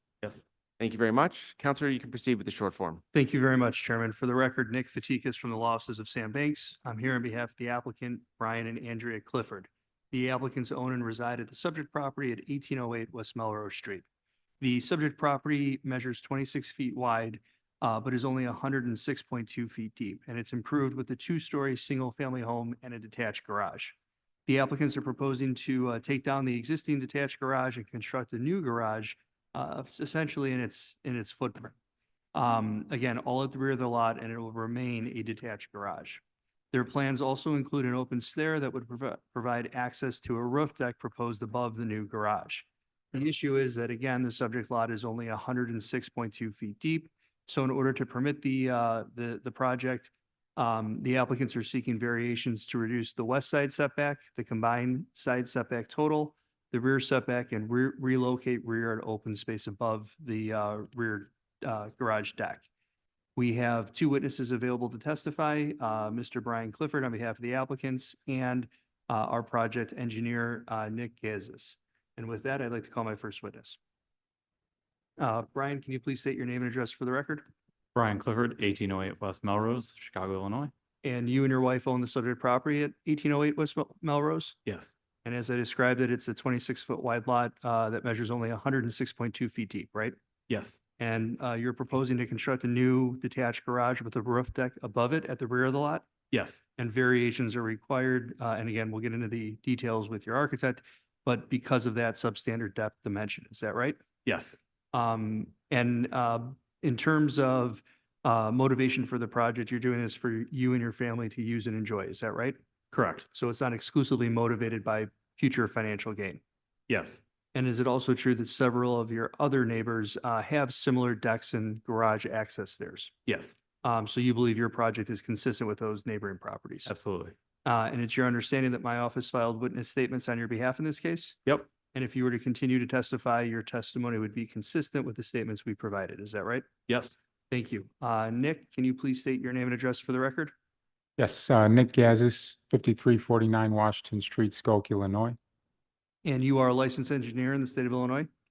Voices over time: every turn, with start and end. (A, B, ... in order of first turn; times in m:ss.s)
0:00.8-0:03.0 A
0:03.1-0:14.0 B
0:14.6-0:23.9 B
0:24.5-0:31.7 B
0:32.3-0:36.2 B
0:36.7-1:02.6 B
1:03.4-1:13.8 B
1:15.2-1:17.5 B
1:17.9-1:20.7 C
1:21.0-1:24.6 B
1:24.6-1:24.9 C
1:25.2-1:30.2 B
1:30.5-1:30.8 C
1:31.0-1:36.1 B
1:36.3-1:36.6 C
1:36.8-1:44.0 B
1:44.2-1:44.5 C
1:44.9-1:52.6 B
1:52.9-1:53.2 C
1:53.2-1:56.4 B
1:56.9-1:57.2 C
1:57.5-2:03.1 B
2:03.3-2:03.5 C
2:03.8-2:06.9 B
2:06.9-2:07.3 C
2:07.6-2:11.4 B
2:11.9-2:16.7 B
2:16.9-2:17.1 C
2:17.5-2:20.5 B
2:21.2-2:25.4 D
2:26.2-2:28.3 B